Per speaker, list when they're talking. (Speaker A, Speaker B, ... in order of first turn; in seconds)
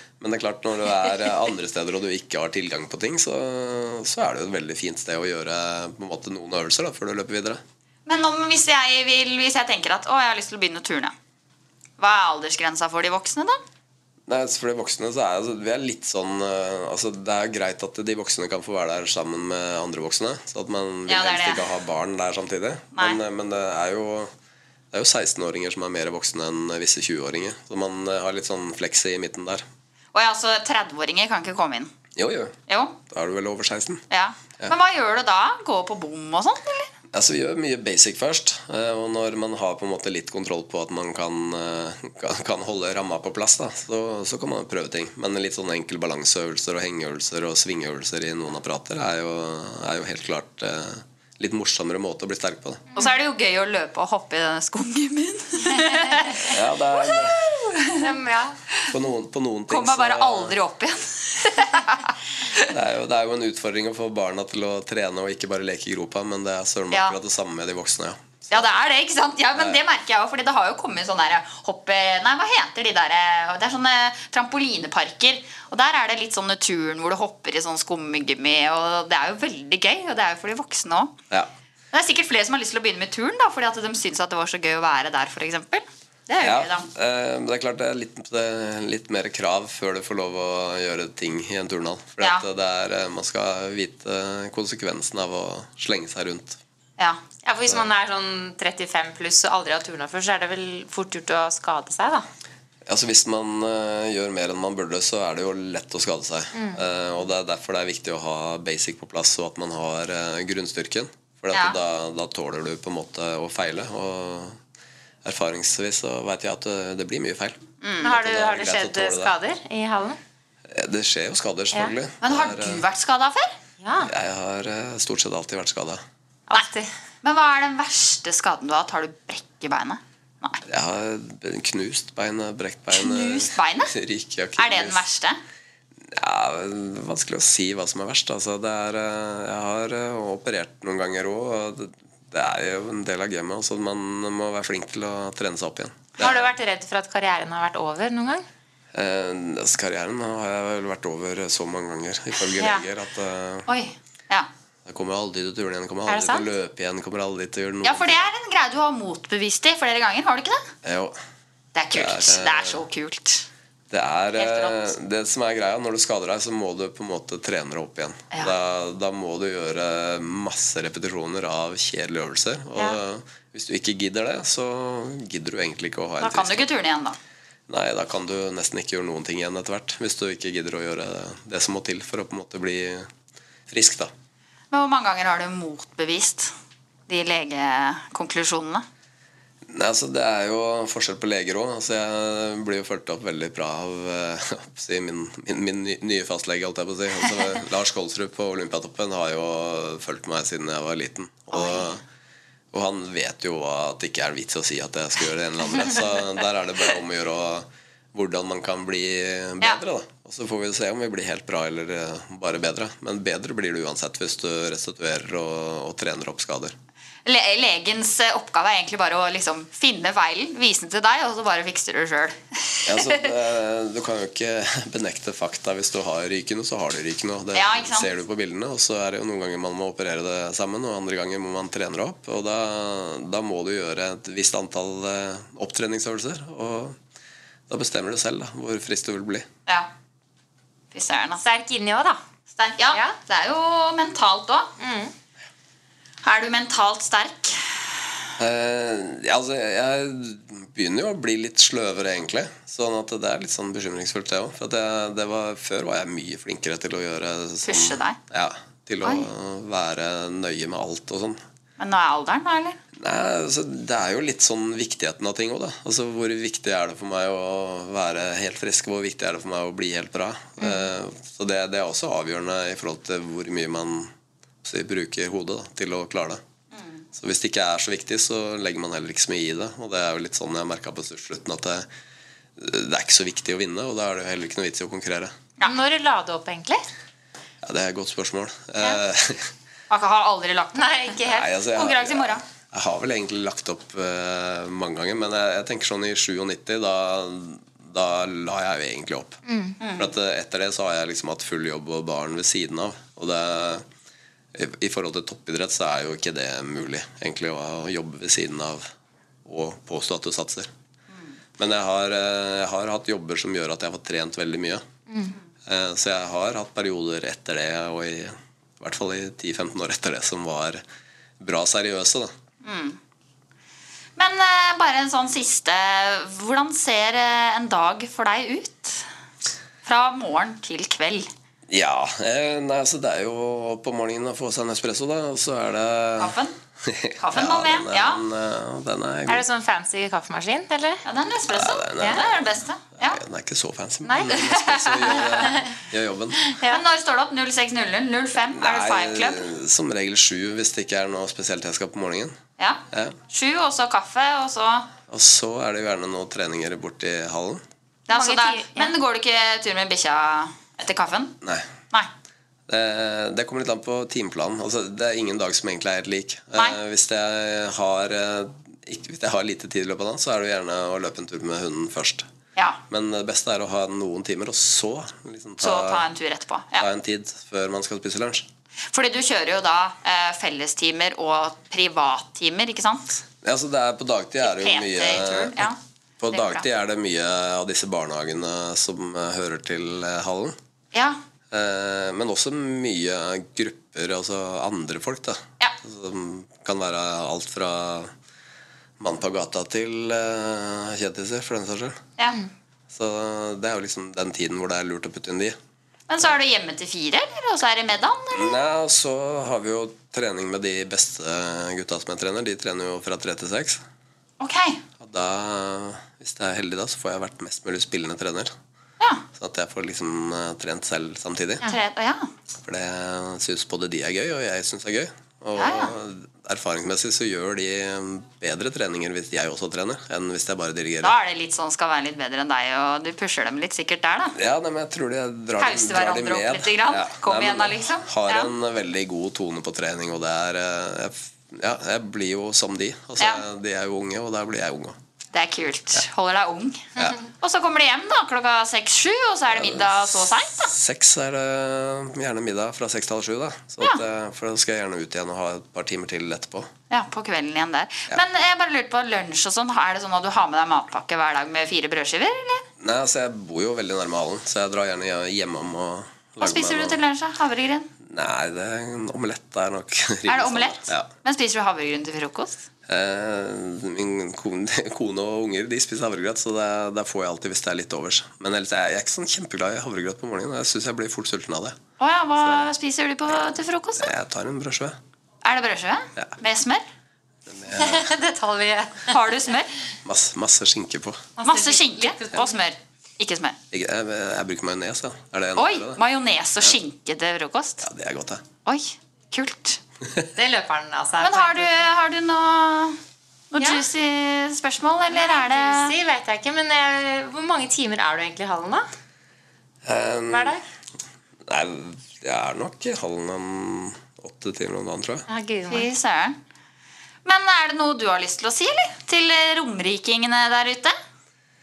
Speaker A: 0.2-7.6, 14.3-24.3, 24.9-29.6, 32.1-32.5, 33.1-34.0, 37.1-52.8, 56.4-57.5, 58.9-60.5, 62.7-68.7, 86.4-96.6, 102.8-114.6, 115.2-119.3, 120.7-122.8, 124.0-126.0, 130.7-135.0, 136.0-146.5, 148.9-153.7, 154.8-158.3, 160.8-161.2, 161.9-162.8, 163.9-176.7, 177.7-183.1, 183.7-184.1, 189.7-202.0, 202.7-216.7, 222.8-237.0, 237.7-239.5, 248.4-261.4, 262.9-274.1, 274.6-276.4, 277.1-281.9, 282.6-285.3, 287.6-289.5, 291.2-299.4, 299.9-303.9, 304.5-308.9, 309.4-310.7, 311.6-314.8, 315.6-320.8, 321.4-322.3, 331.7-339.4, 341.5-342.4, 343.0-346.5, 348.5-352.4, 352.9-353.2, 355.1-357.6, 361.4-361.7, 362.7-372.3, 372.9-376.1, 376.8-378.5, 383.4-385.7, 386.2-390.6, 391.5-398.1, 399.0-402.0, 402.9-405.6, 408.3-413.8, 415.0-418.5, 419.4-421.6, 422.6-431.1, 434.3-445.0, 449.5-456.7, 462.8-467.0, 468.0-471.1, 472.9-481.8, 484.0-485.0, 487.5-488.1, 490.0-491.3, 493.7-496.0, 497.8-498.4, 509.8-510.6, 511.4-515.2
Speaker B: 8.1-11.1, 12.0-13.6, 21.1-21.6, 22.9-23.2, 30.1-31.9, 32.7-33.0, 34.1-36.9, 52.9-58.2, 59.7-62.7, 68.5-81.1, 81.9-86.9, 111.5-111.8, 117.8-118.1, 122.2-123.5, 127.2-130.6, 133.0-133.9, 134.6-135.4, 153.7-154.5, 157.8-160.7, 161.7-163.4, 164.4-164.9, 176.2-177.2, 184.7-186.5, 187.1-188.8, 201.6-201.8, 217.2-223.2, 227.5-228.1, 240.9-241.4, 242.5-244.7, 246.2-247.6, 257.6-258.2, 261.8-262.8, 276.8-277.0, 289.9-292.4, 299.8-300.1, 322.6-323.0, 324.2-329.1, 329.8-331.3, 336.2-336.6, 337.2-338.2, 341.0-343.2, 344.3-345.6, 346.7-349.4, 352.6-354.9, 358.1-361.4, 375.6-376.9, 378.9-383.2, 384.4-385.8, 386.3-386.6, 390.9-391.2, 406.1-408.6, 414.4-414.8, 421.6-422.3, 425.6-425.9, 431.0-434.4, 435.6-438.5, 445.3-450.7, 456.9-462.6, 466.4-467.9, 470.3-472.6, 482.0-484.1, 485.4-486.8, 489.1-489.7, 491.4-493.6, 495.6-497.9, 498.6-499.8, 501.2-503.0, 503.5-505.9, 515.7-516.4, 517.2-520.9
Speaker C: 58.0-58.5, 97.4-102.2, 118.0-120.2, 123.8-124.1, 126.5-126.9, 146.2-148.4, 156.1-156.5, 241.4-242.2, 242.9-243.2, 244.8-245.1, 285.6-286.8, 290.7-291.5, 299.5-299.8, 315.1-315.3, 339.3-341.0, 346.4-346.8, 358.1-358.9, 487.7-489.1, 491.4-492.6, 500.4-501.8, 505.1-508.8, 510.3-510.6, 515.3-515.9